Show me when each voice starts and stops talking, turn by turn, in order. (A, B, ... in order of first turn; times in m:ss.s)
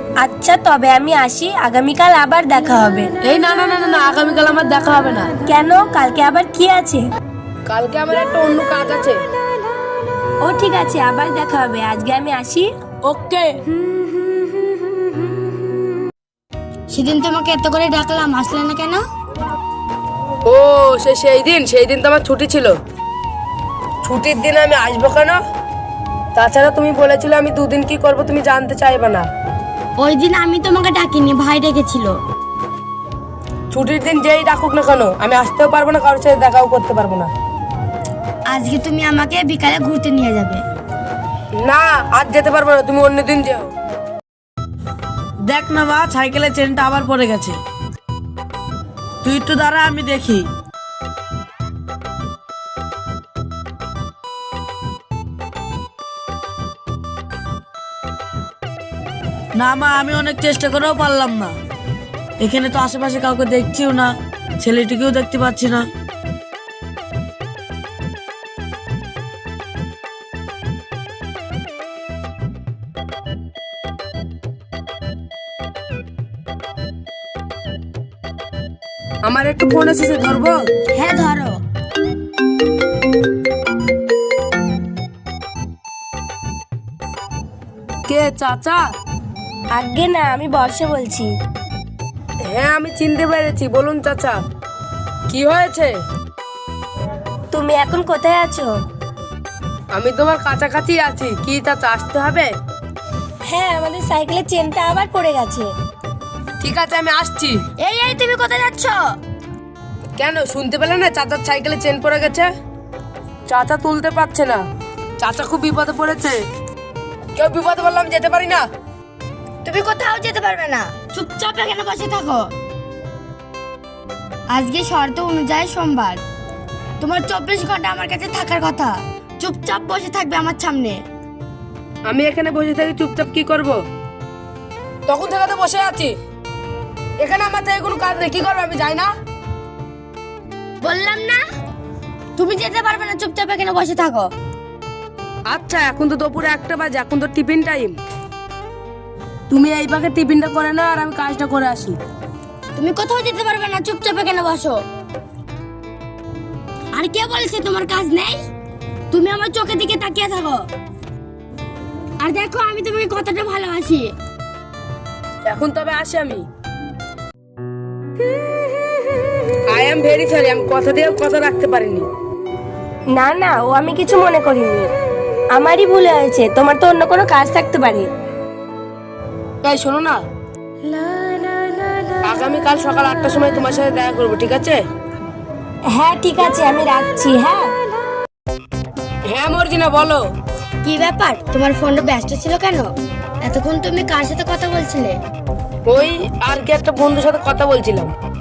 0:00.2-0:03.1 A
0:03.2-0:05.3 B
0:05.4-0:07.0 A
0:07.6-0:09.2 B
0:10.4-0:12.7 A
0:13.0-0:13.5 B
0:16.9-0:19.0 C
0:20.4-0:22.7 B
0:24.0-0:25.4 B
0:26.3-0:29.2 B
0:30.0-0:32.2 C
0:33.7-0:37.3 B
0:38.5-0:40.6 C
0:41.6-0:43.7 B
0:45.5-0:47.6 D
0:49.2-0:50.4 D
0:59.5-1:01.5 D
1:02.4-1:05.9 D
1:19.2-1:20.6 B
1:20.9-1:21.6 C
1:28.1-1:28.8 B
1:29.7-1:31.3 A
1:32.5-1:34.4 B
1:35.3-1:35.9 B
1:37.5-1:38.8 A
1:39.9-1:42.5 B
1:43.4-1:45.7 A
1:46.6-1:47.6 B
1:47.8-1:49.1 C
1:50.2-1:52.5 B
1:53.5-1:54.6 B
1:55.2-1:56.4 B
1:57.4-1:58.6 B
1:59.6-2:02.5 C
2:04.5-2:06.2 C
2:07.0-2:11.0 C
2:12.1-2:13.8 B
2:15.1-2:16.2 B
2:17.2-2:19.1 B
2:20.8-2:21.4 C
2:22.4-2:24.3 C
2:25.5-2:28.0 B
2:29.5-2:32.0 B
2:32.8-2:34.8 C
2:36.9-2:38.4 C
2:39.1-2:40.7 C
2:42.2-2:44.1 C
2:45.4-2:46.5 B
2:49.7-2:52.1 B
2:53.1-2:54.9 A
2:55.5-2:58.1 A
2:59.6-3:00.2 B
3:02.2-3:04.8 B
3:05.9-3:07.7 A
3:09.3-3:10.2 B
3:10.8-3:12.9 C
3:13.4-3:15.2 C
3:15.8-3:18.1 B